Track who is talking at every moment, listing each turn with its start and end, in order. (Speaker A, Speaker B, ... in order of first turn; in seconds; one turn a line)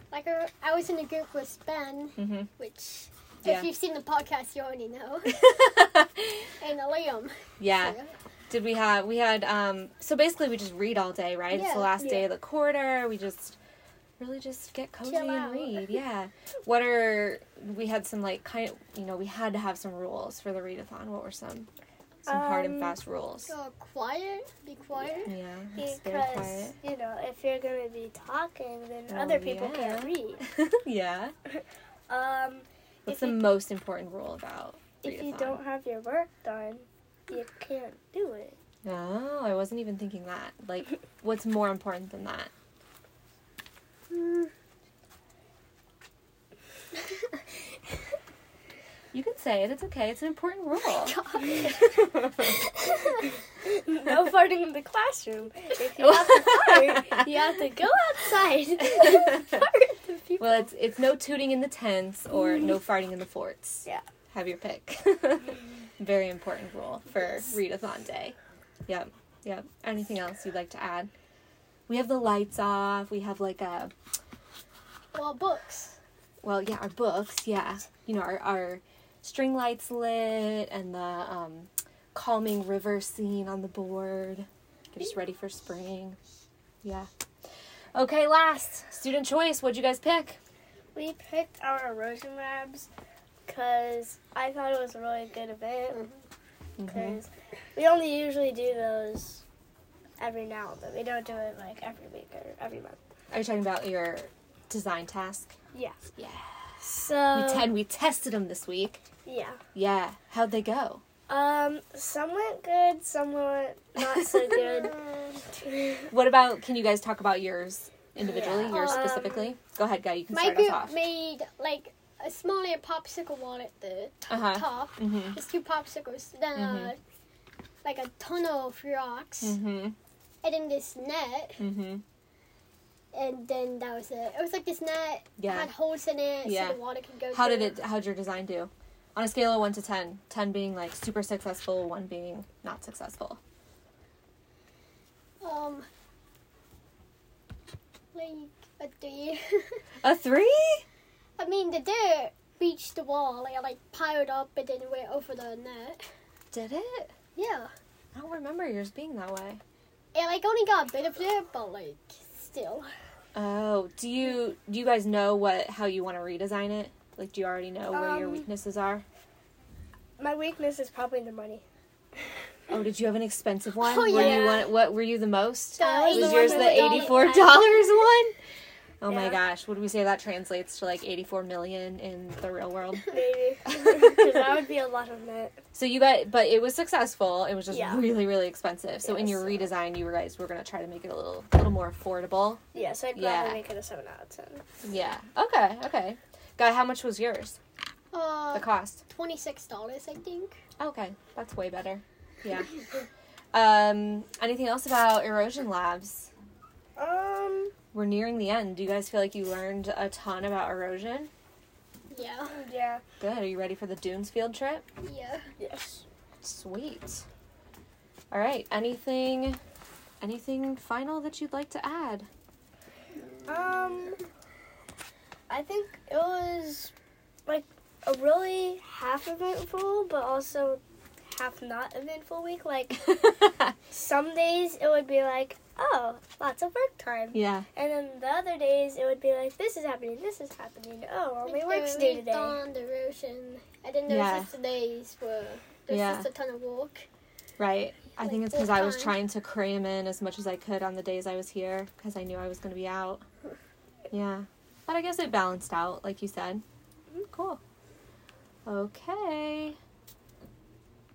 Speaker A: 0.1-5.6
Speaker B: 2.2-2.5
Speaker B: 5.4-6.3
Speaker A: 6.6-8.1
Speaker B: 7.6-8.0
Speaker B: 8.5-13.6
Speaker A: 11.5-12.2
Speaker B: 14.2-21.7
Speaker A: 15.0-16.0
Speaker B: 22.3-23.5
Speaker C: 22.3-23.0
Speaker A: 23.5-25.3
Speaker B: 25.2-26.8
Speaker C: 25.8-30.4
Speaker B: 29.1-31.3
Speaker C: 32.1-33.5
Speaker B: 33.1-35.6
Speaker C: 35.0-38.6
Speaker B: 38.8-42.5
Speaker A: 44.1-44.5
Speaker B: 49.1-51.2
Speaker A: 50.9-52.1
Speaker B: 52.0-52.4
Speaker C: 53.6-59.3
Speaker B: 56.0-57.2
Speaker A: 58.9-60.7
Speaker B: 60.4-71.1
Speaker B: 71.9-73.9
Speaker A: 75.1-76.0
Speaker B: 76.4-86.2
Speaker B: 86.8-87.1
Speaker B: 87.9-90.4
Speaker C: 91.0-92.9
Speaker C: 93.5-96.0
Speaker A: 95.9-96.2
Speaker B: 96.8-97.2
Speaker C: 96.8-99.4
Speaker C: 100.2-103.0
Speaker B: 103.3-105.6
Speaker C: 105.7-106.1
Speaker B: 106.2-106.6
Speaker C: 106.8-107.7
Speaker B: 107.3-109.0
Speaker C: 109.2-109.6
Speaker B: 109.8-111.0
Speaker C: 111.3-116.1
Speaker B: 114.0-114.9
Speaker B: 116.1-121.0
Speaker C: 118.2-119.5
Speaker A: 118.7-119.2
Speaker A: 120.3-127.0
Speaker B: 124.3-125.4
Speaker B: 126.5-126.9
Speaker A: 127.8-129.6
Speaker B: 129.4-130.0
Speaker A: 130.4-131.6
Speaker B: 131.6-132.0
Speaker A: 133.1-137.8
Speaker B: 135.4-135.7
Speaker B: 136.4-143.4
Speaker A: 145.4-145.9
Speaker A: 148.1-149.8
Speaker B: 150.0-150.8
Speaker A: 151.4-156.0
Speaker B: 156.5-157.1
Speaker A: 157.4-157.7
Speaker B: 158.1-159.6
Speaker A: 160.1-162.9
Speaker B: 163.3-169.0
Speaker C: 167.9-168.5
Speaker C: 170.2-171.7
Speaker B: 172.7-178.3
Speaker A: 173.8-174.7
Speaker C: 174.1-174.7
Speaker A: 175.8-177.4
Speaker C: 175.8-177.7
Speaker B: 179.0-183.1
Speaker C: 179.1-179.4
Speaker C: 183.1-185.6
Speaker B: 183.7-184.3
Speaker B: 185.7-192.6
Speaker C: 187.7-188.2
Speaker C: 189.0-189.8
Speaker C: 192.8-194.7
Speaker B: 193.1-193.6
Speaker B: 194.8-197.6
Speaker A: 198.1-200.6
Speaker B: 198.5-199.0
Speaker B: 200.8-202.7
Speaker B: 203.5-206.3
Speaker C: 207.0-207.7
Speaker B: 207.9-211.3
Speaker A: 212.1-212.6
Speaker C: 212.5-213.0
Speaker B: 213.2-214.8
Speaker A: 215.0-215.5
Speaker C: 215.6-216.0
Speaker B: 216.4-217.3
Speaker B: 218.3-219.6
Speaker B: 220.2-222.3
Speaker A: 223.2-224.0
Speaker C: 223.5-224.2
Speaker C: 225.5-226.9
Speaker C: 227.5-233.3
Speaker B: 233.2-233.7
Speaker C: 233.9-242.6
Speaker B: 237.3-237.7
Speaker A: 241.4-247.0
Speaker B: 244.1-244.5
Speaker B: 245.9-246.3
Speaker B: 247.6-253.2
Speaker A: 248.2-249.2
Speaker B: 254.1-256.6
Speaker B: 257.3-257.6
Speaker B: 258.7-259.8